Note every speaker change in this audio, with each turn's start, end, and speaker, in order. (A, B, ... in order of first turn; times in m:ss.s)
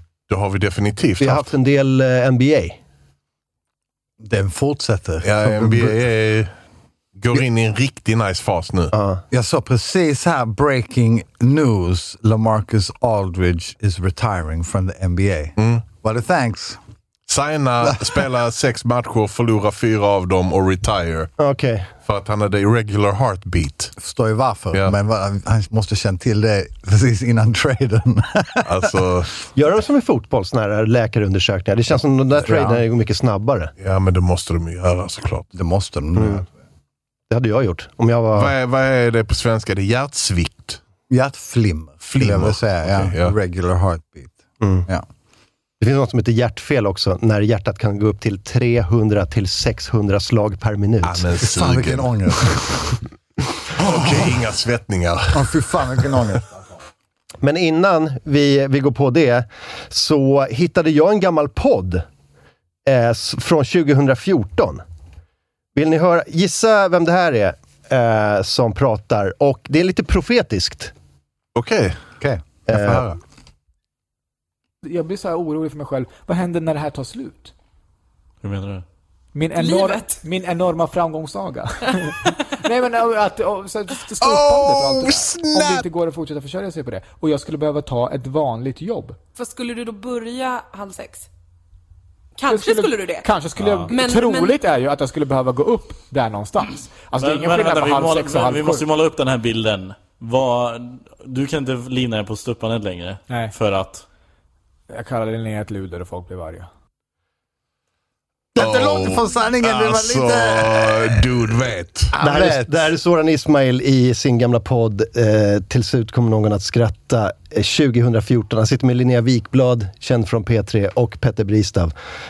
0:00.3-0:01.5 A
0:01.2-0:02.8 B
0:04.2-0:06.0 C
0:05.2-0:06.5 A
0:07.2-0:08.9 A
0:08.9-0:09.2 B
0:09.3-0:16.8 C
0:15.6-0:15.8 A
0:17.3-0:21.3 A
0:21.4-0:21.9 B
0:22.0-0:23.9 A
0:24.0-0:28.8 C
0:28.6-0:29.3 A
0:29.5-0:33.7 B
0:32.4-0:32.8 C
0:33.8-0:35.5 A
0:35.5-0:36.4 C
0:36.2-0:36.4 B
0:37.3-0:38.5 B
0:38.3-0:40.8 A
0:41.1-0:45.0 C
0:42.0-0:43.4 A
0:44.6-0:44.9 B
0:45.8-0:51.3 B
0:51.0-0:52.1 A
0:51.5-0:53.0 C
0:53.8-0:54.3 C
0:53.8-0:56.2 A
0:55.3-0:56.5 C
0:57.4-1:02.0 B
1:02.8-1:04.8 B
1:05.7-1:10.9 B
1:11.5-1:11.9 A
1:12.2-1:13.2 C
1:12.7-1:13.0 B
1:14.8-1:17.5 D
1:18.4-1:18.8 E
1:19.3-1:29.2 D
1:19.6-1:20.1 F
1:24.2-1:25.8 A
1:29.4-1:31.2 F
1:32.4-1:33.3 F
1:32.4-1:38.9 D
1:33.6-1:34.0 E
1:33.9-1:34.5 F
1:37.2-1:44.0 E
1:43.3-1:43.5 D
1:44.9-1:46.7 D
1:48.5-1:51.3 C
1:48.6-1:52.1 A
1:52.1-1:52.9 C
1:52.2-2:01.9 B